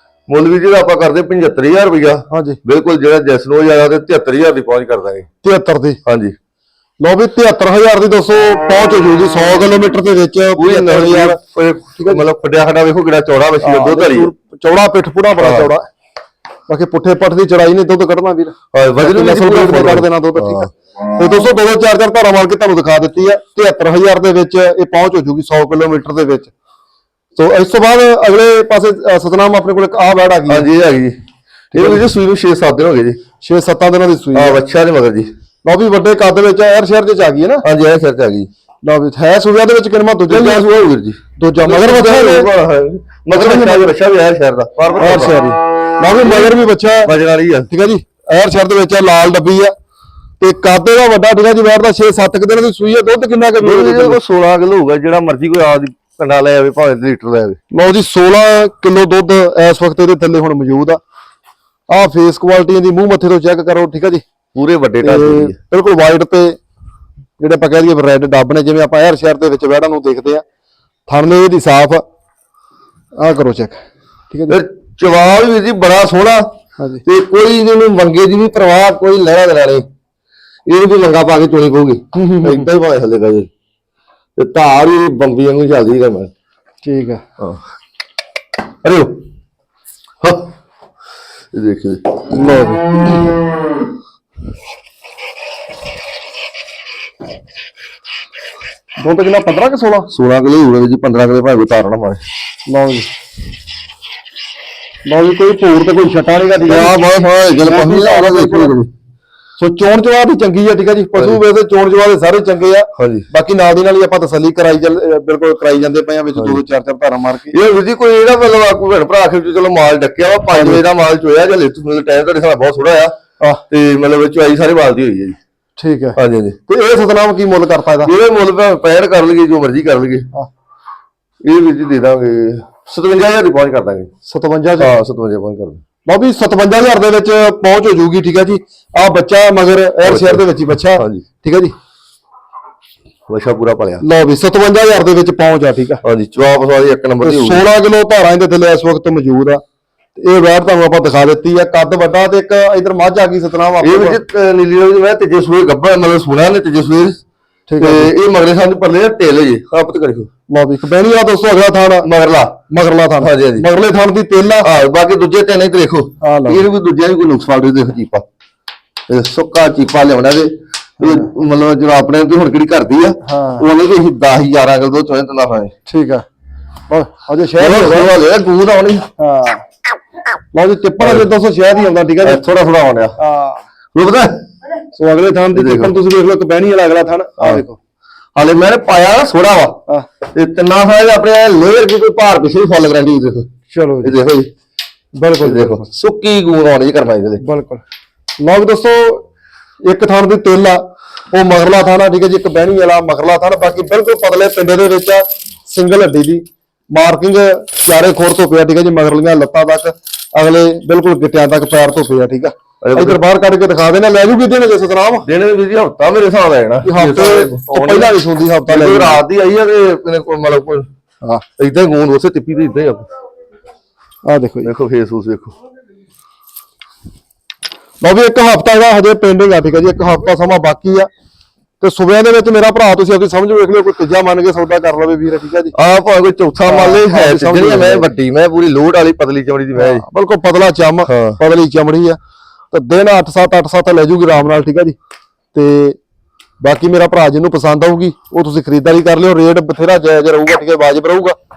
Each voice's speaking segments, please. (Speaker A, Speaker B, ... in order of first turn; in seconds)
Speaker A: 0.3-5.3, 6.0-6.3, 10.6-14.3, 15.4-15.7, 18.7-20.7, 30.5-31.2, 31.7-33.2, 34.3-35.3, 37.6-38.5, 40.3-45.4, 46.1-47.7, 53.6-57.6, 64.5-65.5, 74.5-76.5, 77.0-79.9, 80.7-83.5, 84.4-86.3, 88.8-89.2, 90.2-90.5, 91.5-92.0, 100.1-102.2, 106.7-108.9, 111.1-111.4, 113.0-113.3, 117.5-123.1, 123.7-125.3, 126.2-126.6, 128.0-130.3, 131.4-134.1, 134.8-135.8, 140.0-141.2, 143.3-144.0, 146.0-147.6, 153.8-157.2, 157.8-160.3, 162.0-162.6, 163.2-163.7, 164.6-168.2, 169.1-175.7, 177.6-179.1, 181.0-181.3, 182.2-183.2, 183.9-184.4, 185.5-185.9, 187.4-187.6, 188.3-189.8, 190.3-193.5, 194.0-194.5, 195.4-197.4, 212.8-213.2, 215.2-218.1, 218.7-220.9, 221.6-223.1, 224.6-225.6, 235.7-240.0, 241.0-241.4
Speaker B: 2.3-2.6, 5.4-6.0, 7.0-11.4, 12.0-12.2, 13.6-15.8, 16.7-26.5, 27.4-30.6, 31.7-32.1, 33.4-34.6, 35.6-37.6, 38.8-40.6, 41.4-42.5, 43.3-44.0, 45.0-47.1, 47.7-49.7, 50.4-54.2, 57.7-61.0, 61.9-64.2, 65.0-66.6, 67.4-70.4, 71.1-72.0, 73.2-73.8, 74.3-74.6, 82.1-82.7, 86.8-87.2, 92.3-93.2, 99.0-100.1, 102.7-103.1, 105.0-107.0, 107.6-108.7, 109.6-117.5, 120.5-120.8, 125.8-128.1, 134.2-134.9, 136.1-141.7, 144.0-146.0, 147.2-149.6, 150.2-154.2, 157.7-158.1, 160.5-162.1, 162.7-164.7, 166.2-166.7, 171.0-171.3, 173.2-173.7, 175.9-176.2, 176.9-178.1, 179.2-179.6, 180.5-182.4, 183.2-183.6, 184.9-187.8, 193.7-194.2, 195.2-195.9, 197.4-197.8, 198.4-199.2, 199.8-215.3, 216.8-219.2, 224.2-224.7, 228.0-231.1, 231.8-235.7, 236.6-238.1, 239.8-242.2, 242.7-244.9, 245.5-246.0, 246.6-251.3